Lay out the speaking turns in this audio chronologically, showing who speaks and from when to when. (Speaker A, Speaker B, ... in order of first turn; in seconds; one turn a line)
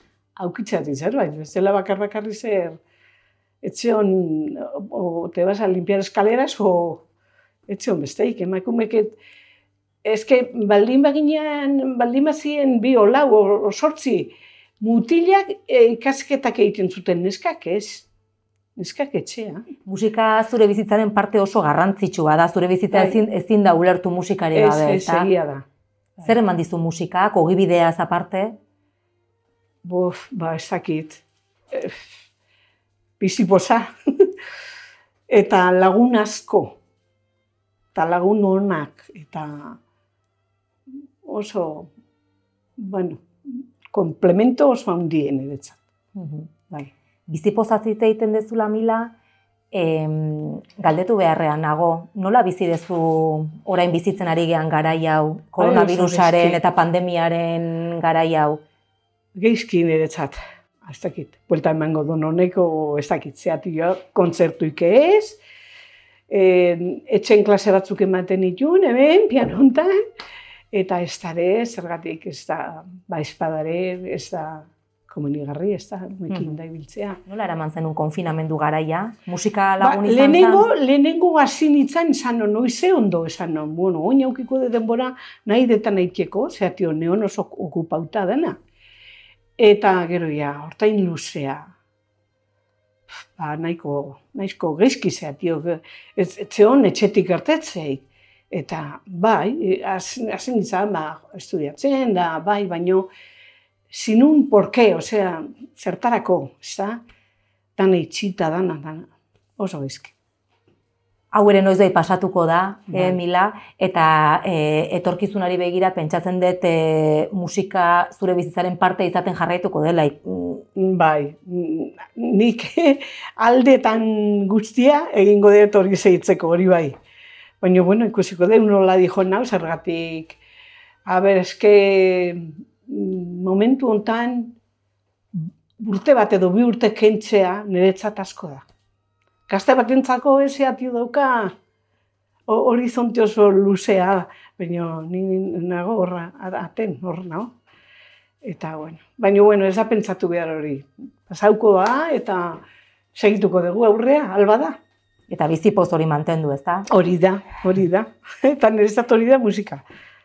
Speaker A: 0.4-2.8
Speaker A: 3.6-7.0
Speaker A: 7.7-9.1
Speaker A: 10.0-18.1
Speaker A: 18.8-19.6
Speaker B: 19.8-25.3
Speaker A: 22.9-23.2
Speaker A: 24.5-25.6
Speaker B: 26.2-28.5
Speaker A: 29.8-32.0
Speaker A: 33.2-34.3
Speaker A: 35.3-36.8
Speaker A: 37.9-39.8
Speaker A: 41.2-41.9
Speaker A: 42.8-45.8
Speaker B: 46.1-46.5
Speaker B: 47.3-49.1
Speaker B: 49.7-58.6
Speaker A: 55.6-56.6
Speaker A: 59.3-65.4
Speaker A: 66.3-69.9
Speaker A: 70.7-77.2
Speaker B: 77.2-80.7
Speaker A: 79.8-88.6
Speaker A: 89.6-91.7
Speaker A: 93.3-103.1
Speaker A: 103.9-107.0
Speaker A: 107.8-110.1
Speaker B: 111.3-120.6
Speaker A: 112.9-113.2
Speaker A: 120.8-127.0
Speaker A: 127.6-130.4
Speaker A: 131.1-134.5
Speaker A: 135.3-138.7
Speaker A: 139.5-141.5
Speaker A: 142.5-147.5
Speaker A: 148.4-152.6
Speaker A: 153.1-154.8
Speaker B: 155.3-156.9
Speaker A: 156.9-159.8